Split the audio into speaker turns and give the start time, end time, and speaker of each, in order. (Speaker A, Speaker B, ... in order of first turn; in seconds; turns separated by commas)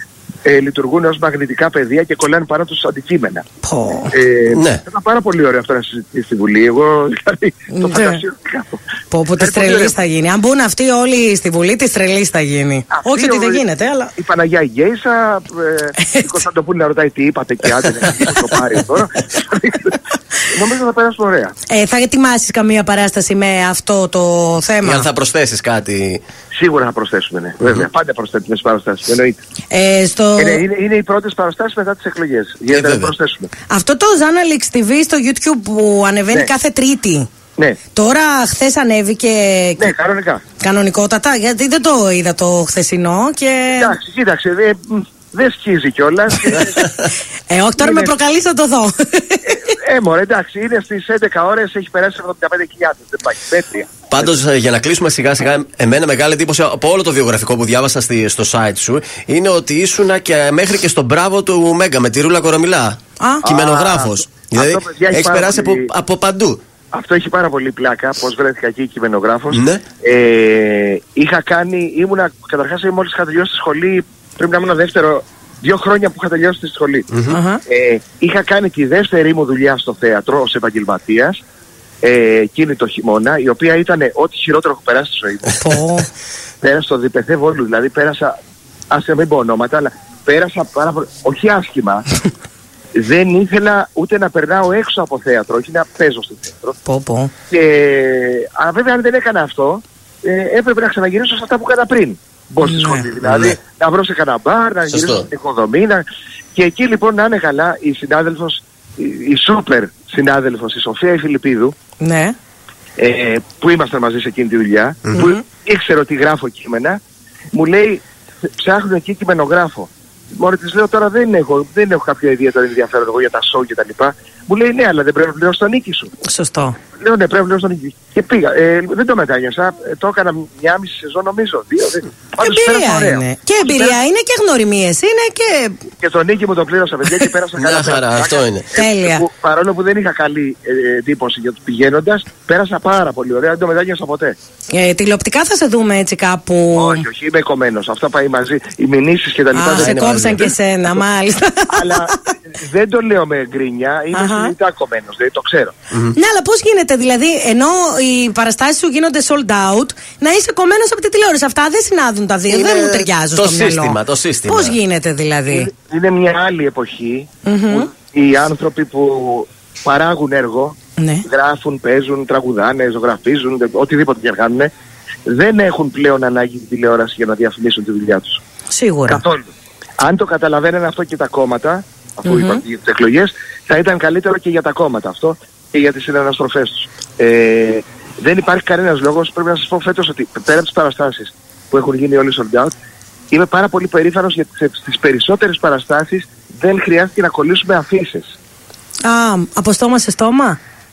Speaker A: 0.4-3.5, Speaker B: 3.6-4.1, Speaker A: 4.1-8.8, Speaker C: 4.5-4.8, Speaker B: 7.7-8.2, Speaker B: 9.1-14.1, Speaker A: 9.4-9.9, Speaker A: 12.9-13.6, Speaker A: 14.2-20.0, Speaker B: 16.0-16.3, Speaker A: 20.5-21.5, Speaker B: 21.7-25.1, Speaker C: 24.8-26.2, Speaker A: 26.5-29.4, Speaker B: 29.7-30.6, Speaker A: 30.4-33.5, Speaker C: 32.7-33.1, Speaker B: 33.7-37.3, Speaker B: 37.9-39.9, Speaker A: 39.8-40.4, Speaker B: 40.6-44.0, Speaker A: 43.7-46.9, Speaker B: 47.5-49.7, Speaker A: 47.8-48.1, Speaker A: 49.4-54.3, Speaker C: 54.1-66.6, Speaker B: 63.2-63.4, Speaker A: 63.4-65.9, Speaker A: 66.9-77.1, Speaker C: 69.5-69.8, Speaker C: 77.1-77.4, Speaker B: 77.3-77.6, Speaker A: 77.7-81.4, Speaker A: 82.0-85.6, Speaker B: 85.6-86.1, Speaker A: 86.6-88.3, Speaker A: 88.9-92.0, Speaker A: 92.9-96.8, Speaker B: 96.8-97.3, Speaker A: 97.5-111.7, Speaker B: 102.6-103.1, Speaker C: 103.2-103.6, Speaker C: 104.9-105.3, Speaker B: 112.0-112.3, Speaker A: 113.0-117.0, Speaker B: 115.2-115.4, Speaker A: 117.5-118.0, Speaker A: 118.6-126.1, Speaker B: 126.3-126.8, Speaker A: 127.0-133.9, Speaker B: 132.4-135.8, Speaker A: 136.0-144.3, Speaker C: 137.6-138.7, Speaker B: 138.7-139.2, Speaker B: 144.7-147.0, Speaker A: 146.7-150.5, Speaker B: 149.5-152.1, Speaker C: 149.7-150.4, Speaker A: 151.7-155.7, Speaker B: 154.1-154.5, Speaker C: 155.9-156.2, Speaker B: 156.1-165.7, Speaker C: 162.5-164.8, Speaker A: 165.5-174.7, Speaker B: 167.4-167.9, Speaker B: 171.0-171.2, Speaker A: 175.3-178.4, Speaker B: 178.7-179.2, Speaker A: 179.1-192.7, Speaker B: 182.2-182.6, Speaker A: 193.3-198.3, Speaker B: 199.0-200.6